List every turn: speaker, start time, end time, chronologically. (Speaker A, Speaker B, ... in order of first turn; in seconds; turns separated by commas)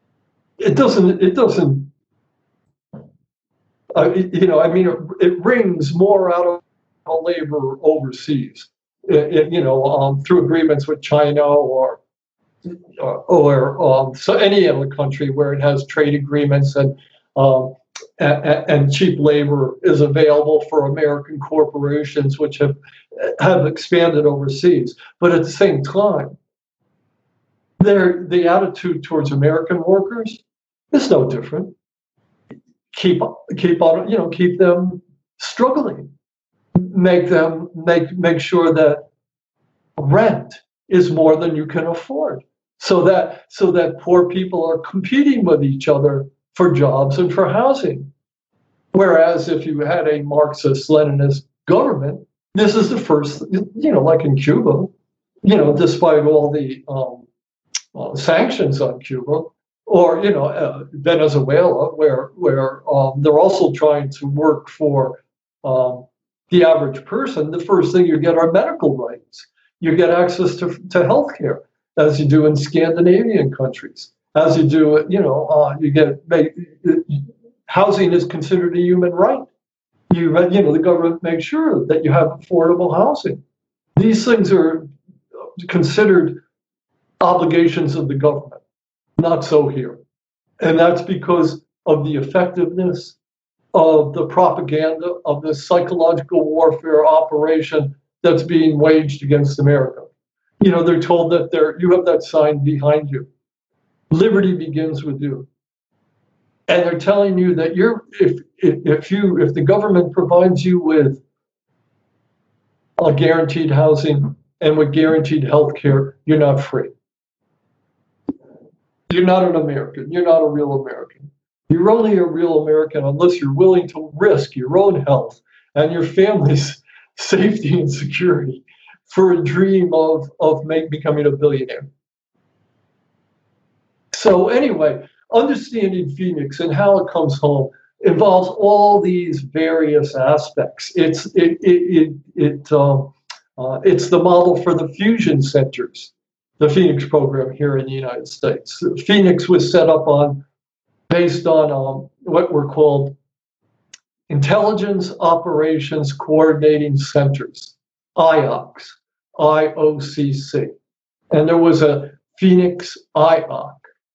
Speaker A: 0.6-1.9, Speaker A: 3.9-12.0, Speaker A: 12.7-26.4, Speaker A: 27.8-31.7, Speaker A: 32.9-36.1, Speaker A: 36.8-39.1, Speaker A: 40.0-48.1, Speaker A: 48.9-54.9, Speaker A: 55.4-57.3, Speaker A: 57.9-79.5, Speaker A: 80.1-83.4, Speaker A: 84.0-84.9, Speaker A: 85.6-86.4, Speaker A: 87.2-88.6, Speaker A: 89.2-90.0, Speaker A: 90.6-93.2, Speaker A: 93.7-100.1, Speaker A: 100.6-103.3, Speaker A: 104.1-105.5, Speaker A: 106.7-111.2, Speaker A: 113.0-116.9, Speaker A: 119.1-131.9, Speaker A: 134.1-150.4, Speaker A: 151.1-153.2, Speaker A: 154.3-160.7, Speaker A: 161.3-163.8